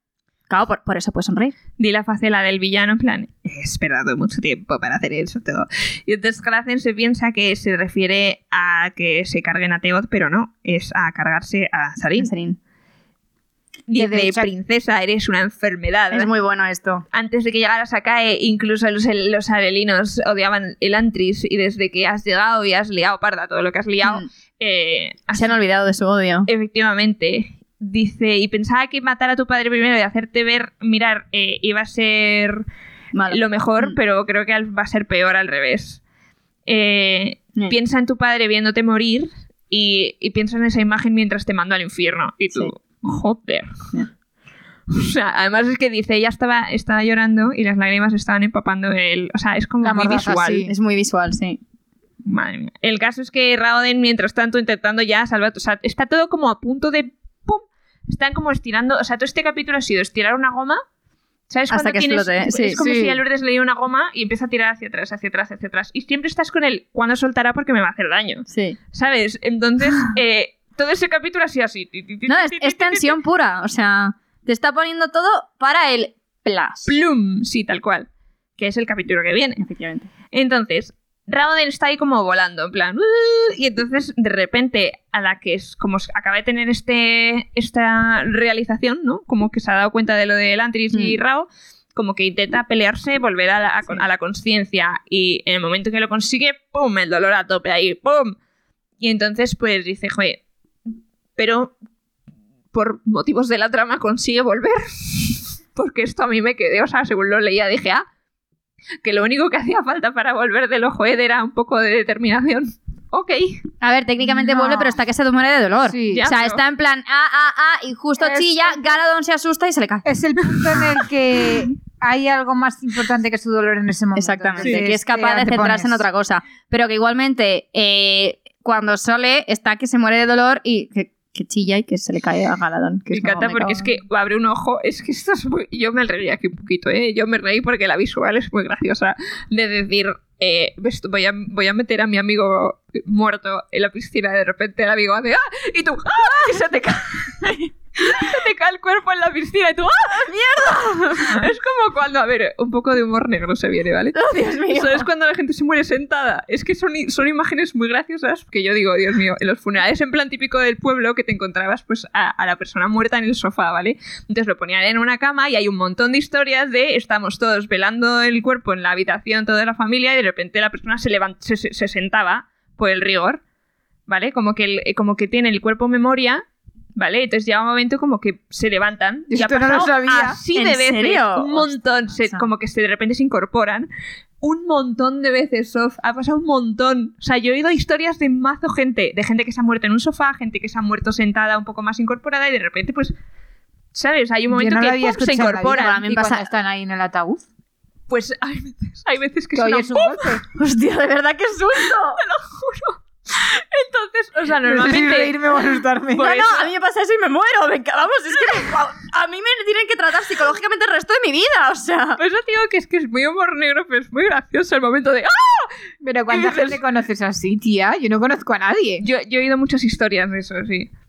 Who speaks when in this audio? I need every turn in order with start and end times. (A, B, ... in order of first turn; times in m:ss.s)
0:00.5-0:01.6 A
0:01.8-0:12.3 B
0:12.2-0:12.6 A
0:13.9-0:16.3 B
0:14.0-0:14.5 C
0:16.1-0:17.0 A
0:17.1-0:25.5 B
0:25.4-0:26.5 A
0:26.5-0:32.6 B
0:33.1-0:33.9 A
0:33.3-0:36.0 B
0:36.6-0:43.9 B
0:44.9-0:50.7 B
0:49.8-0:50.7 C
0:50.7-0:51.6 A
0:52.2-1:00.8 B
1:01.5-1:13.2 B
1:01.7-1:02.8 A
1:02.8-1:03.2 C
1:08.5-1:08.8 A
1:12.3-1:16.9 A
1:16.8-1:19.6 B
1:19.6-1:20.1 A
1:20.3-1:38.4 B
1:39.0-1:40.4 B
1:41.4-1:41.8 B
1:42.7-1:48.0 B
1:49.0-1:53.6 B
1:53.8-2:00.1 A
1:54.3-1:55.0 C
1:55.8-1:56.2 C
1:56.1-1:56.6 B
1:58.2-1:59.0 C
2:00.0-2:06.0 C
2:00.8-2:01.1 B
2:04.2-2:13.9 A
2:04.6-2:04.9 B
2:13.1-2:30.3 B
2:26.2-2:26.5 A
2:30.1-2:31.5 A
2:31.2-2:53.4 B
2:34.2-2:35.1 A
2:54.1-2:56.4 B
2:56.9-3:03.9 B
2:59.3-3:00.4 C
3:00.5-3:02.5 A
3:04.4-3:13.2 B
3:13.9-3:16.0 B
3:14.5-3:17.4 C
3:15.7-3:16.5 A
3:18.1-3:20.4 B
3:19.6-3:20.4 C
3:20.5-3:22.2 A
3:21.8-3:25.6 B
3:24.7-3:26.4 C
3:26.2-3:26.7 B
3:26.2-3:32.2 A
3:32.2-3:35.7 B
3:36.0-3:39.0 C
3:36.3-3:36.8 B
3:39.0-3:40.9 B